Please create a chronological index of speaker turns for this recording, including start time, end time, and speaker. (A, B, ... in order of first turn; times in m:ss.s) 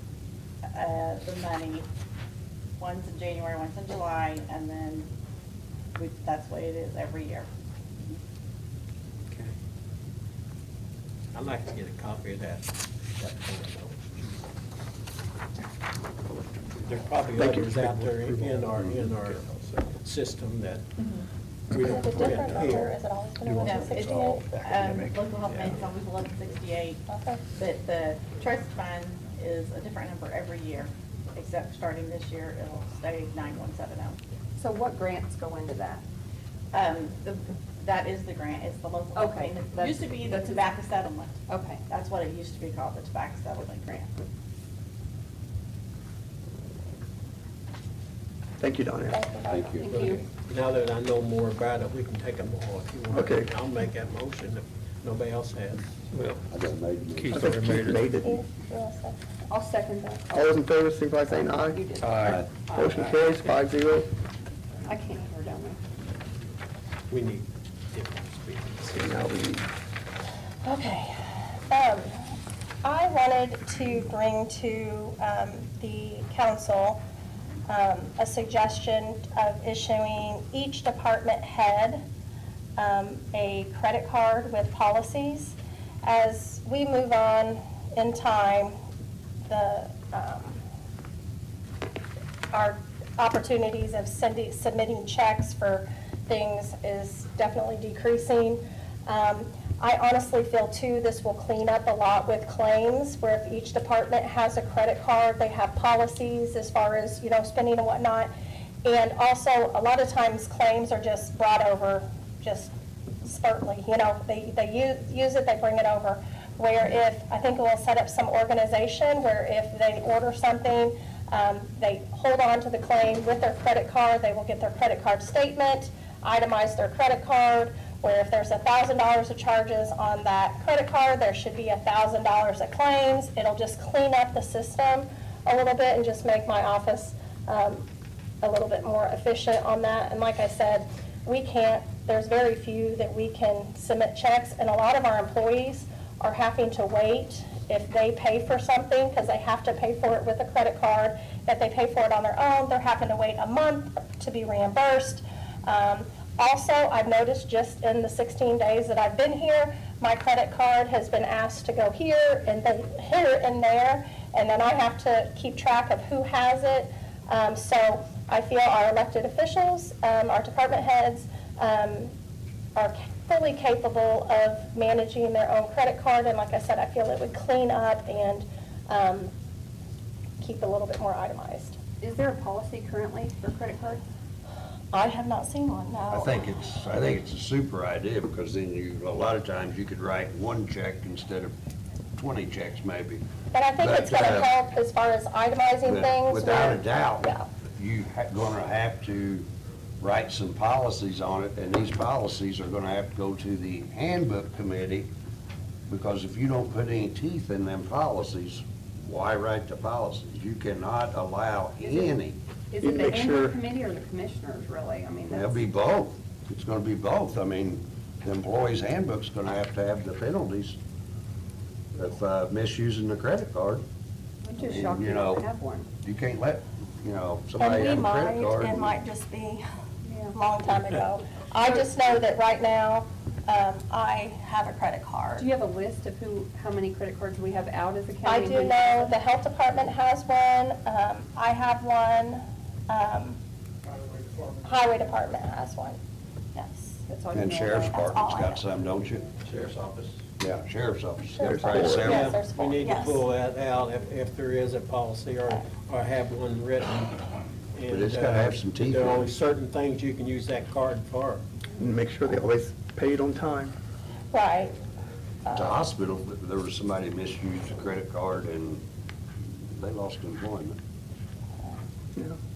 0:00.7-0:01.8 A
0:02.8-0:05.1 A
0:06.0-0:07.5 A
0:11.3-0:14.5 B
0:16.8-0:20.9 B
0:17.4-0:18.1 C
0:18.2-0:18.7 D
0:21.7-0:22.9 B
0:21.7-0:24.5 E
0:23.5-0:23.9 B
0:23.6-0:34.2 A
0:24.3-0:25.6 D
0:27.1-0:27.4 E
0:34.6-0:36.0 F
0:36.7-0:44.1 A
0:39.1-0:40.6 F
0:41.5-0:41.8 F
0:48.6-0:49.2 C
0:49.1-0:50.1 E
0:49.5-0:49.8 G
0:49.8-0:50.3 F
0:49.8-0:56.0 B
0:53.1-0:53.5 C
0:56.1-0:56.4 D
0:56.5-0:57.6 G
0:57.2-0:58.0 D
0:57.3-0:58.4 C
0:58.1-0:59.2 E
0:59.5-1:03.4 F
1:00.3-1:01.8 C
1:02.0-1:02.4 D
1:02.7-1:04.1 C
1:04.9-1:05.8 F
1:07.1-1:09.2 B
1:09.0-1:09.6 C
1:10.6-1:12.3 E
1:12.8-1:17.0 E
1:17.7-1:22.0 E
1:22.8-1:28.7 E
1:29.4-1:30.6 E
1:32.5-1:48.3 E
1:48.8-1:52.7 E
1:53.2-2:17.8 E
2:18.4-2:52.1 E
2:52.8-2:59.3 E
3:00.4-3:01.8 E
3:02.0-3:04.0 F
3:04.9-3:06.5 E
3:06.1-3:11.5 G
3:12.2-3:13.2 G
3:13.5-3:17.5 E
3:13.8-3:14.5 G
3:15.8-3:19.5 G
3:20.0-3:25.1 G
3:25.9-3:32.4 G
3:31.8-3:32.1 F
3:32.7-3:35.7 F
3:32.8-3:33.6 C
3:35.3-3:40.8 G
3:41.9-3:43.8 G
3:44.4-3:45.9 F
3:44.6-3:45.4 G
3:46.0-3:49.0 G
3:47.6-3:49.6 E
3:50.0-3:50.4 F
3:50.3-3:55.5 E
3:55.4-3:59.1 F
3:58.2-4:03.4 E
4:04.6-4:06.0 E
4:06.5-4:07.0 E
4:07.1-4:08.0 F
4:07.3-4:09.4 G
4:07.9-4:08.6 E
4:09.5-4:10.0 B
4:10.4-4:12.3 G
4:11.4-4:13.2 E
4:11.4-4:12.2 C
4:12.0-4:21.4 B
4:17.9-4:19.3 G
4:21.8-4:23.7 C
4:24.3-4:24.7 E
4:25.4-4:25.8 E
4:25.5-4:28.8 G
4:29.8-4:30.8 G